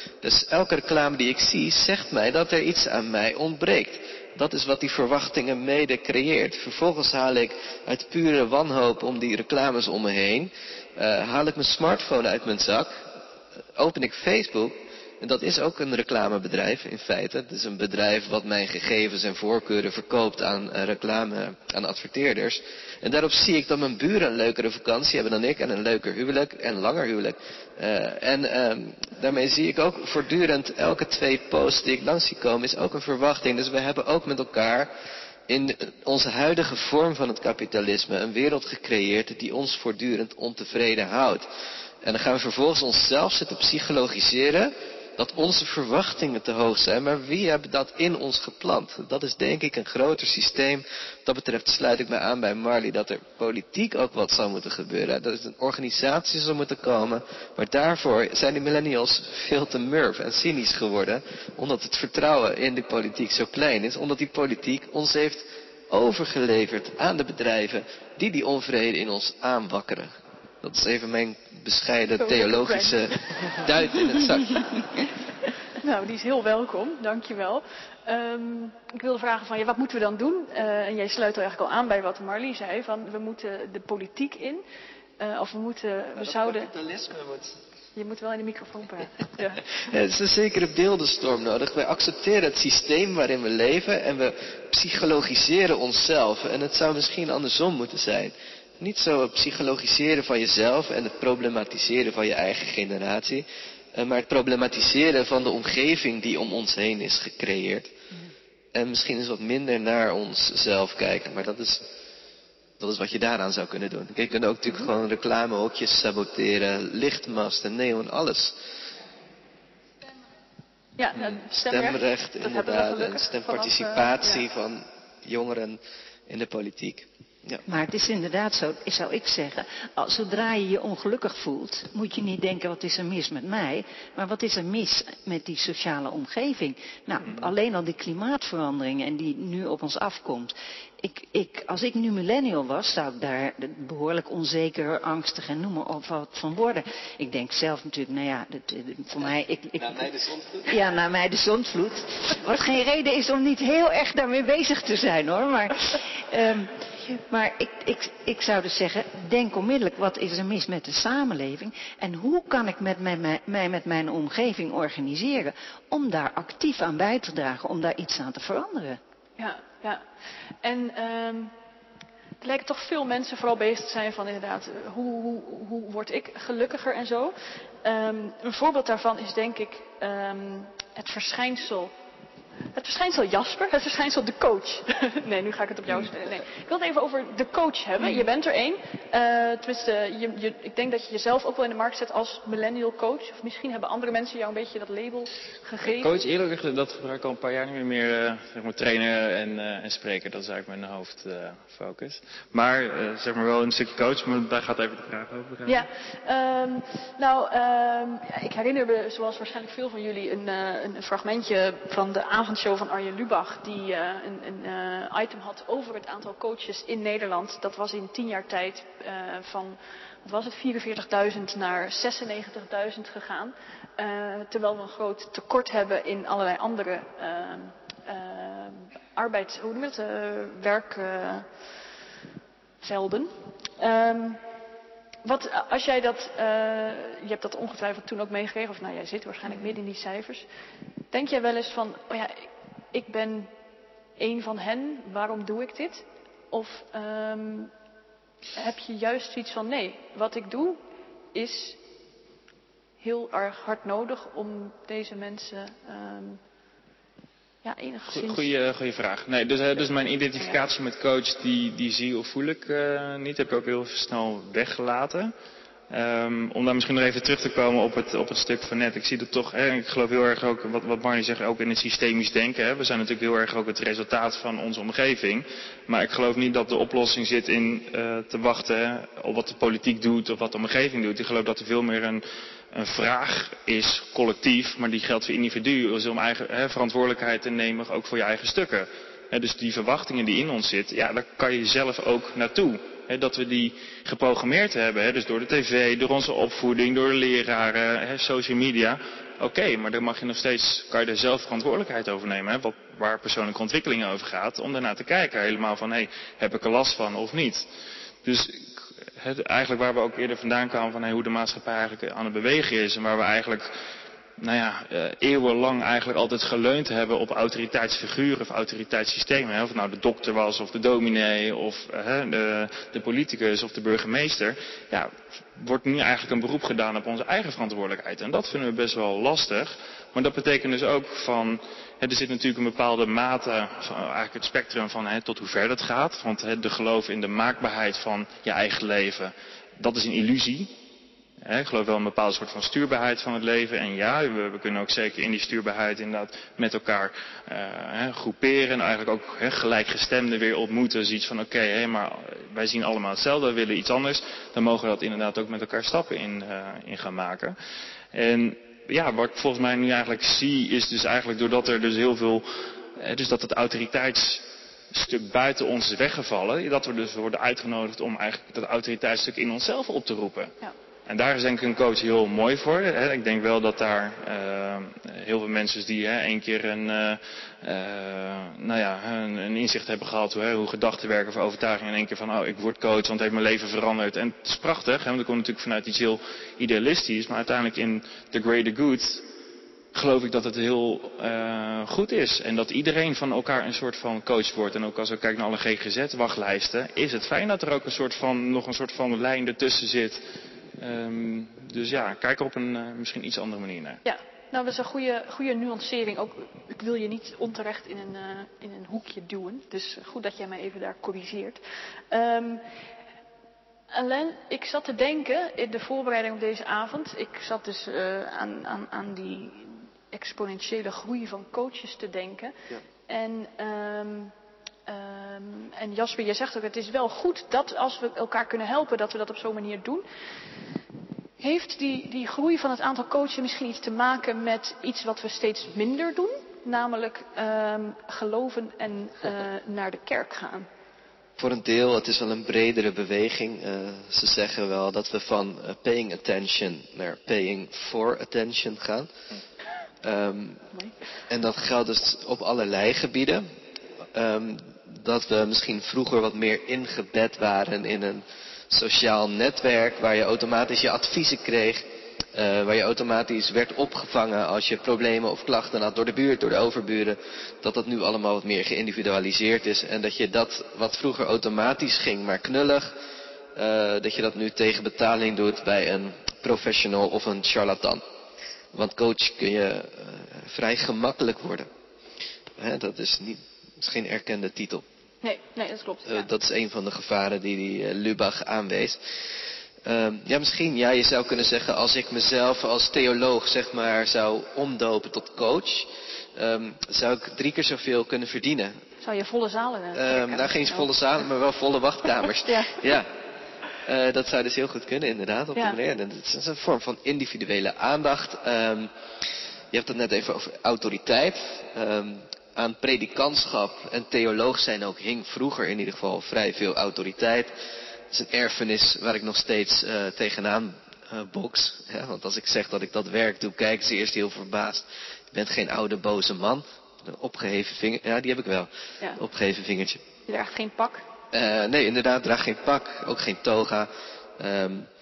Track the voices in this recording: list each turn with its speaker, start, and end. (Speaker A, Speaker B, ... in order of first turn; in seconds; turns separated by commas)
Speaker A: 0.2-13.1, Speaker A: 13.8-34.9, Speaker A: 35.5-41.5, Speaker A: 42.0-75.0, Speaker B: 72.2-73.1, Speaker B: 75.8-84.6, Speaker B: 85.2-86.7, Speaker A: 86.2-87.6, Speaker B: 88.0-89.6, Speaker A: 89.8-107.9, Speaker A: 108.7-111.9, Speaker A: 112.8-118.5, Speaker B: 121.0-124.4, Speaker A: 121.3-127.6, Speaker C: 127.7-150.1, Speaker A: 149.8-150.7, Speaker C: 150.6-169.0, Speaker B: 169.4-170.1, Speaker B: 170.6-171.5, Speaker B: 172.4-181.9, Speaker B: 182.7-196.2, Speaker D: 195.8-205.9, Speaker B: 205.7-231.5, Speaker B: 232.8-234.4, Speaker B: 235.2-240.5, Speaker B: 241.1-243.5, Speaker B: 244.2-247.7, Speaker B: 248.6-250.8, Speaker B: 251.3-251.8, Speaker B: 253.0-256.4, Speaker B: 257.6-258.5, Speaker D: 258.1-265.3, Speaker D: 265.9-307.6, Speaker D: 308.2-313.7, Speaker D: 314.4-340.7, Speaker D: 341.4-357.6, Speaker D: 358.1-370.5, Speaker D: 371.1-389.2, Speaker D: 389.9-400.2, Speaker D: 400.8-404.0, Speaker B: 404.1-411.6, Speaker B: 412.1-412.6, Speaker B: 413.9-422.6, Speaker B: 423.1-424.3, Speaker B: 424.9-430.1, Speaker B: 431.4-440.7, Speaker A: 441.4-449.1, Speaker A: 450.0-450.7, Speaker A: 451.3-453.5, Speaker A: 454.1-461.8, Speaker A: 462.4-472.9, Speaker A: 473.6-478.0, Speaker A: 478.7-481.7, Speaker A: 482.6-484.9, Speaker B: 485.2-486.3, Speaker A: 486.1-489.0, Speaker A: 489.9-498.8, Speaker B: 499.0-500.9, Speaker A: 499.9-503.1, Speaker B: 502.4-502.8, Speaker A: 503.9-508.9, Speaker A: 509.7-517.5, Speaker A: 518.1-530.0, Speaker B: 530.3-531.0, Speaker A: 531.3-534.9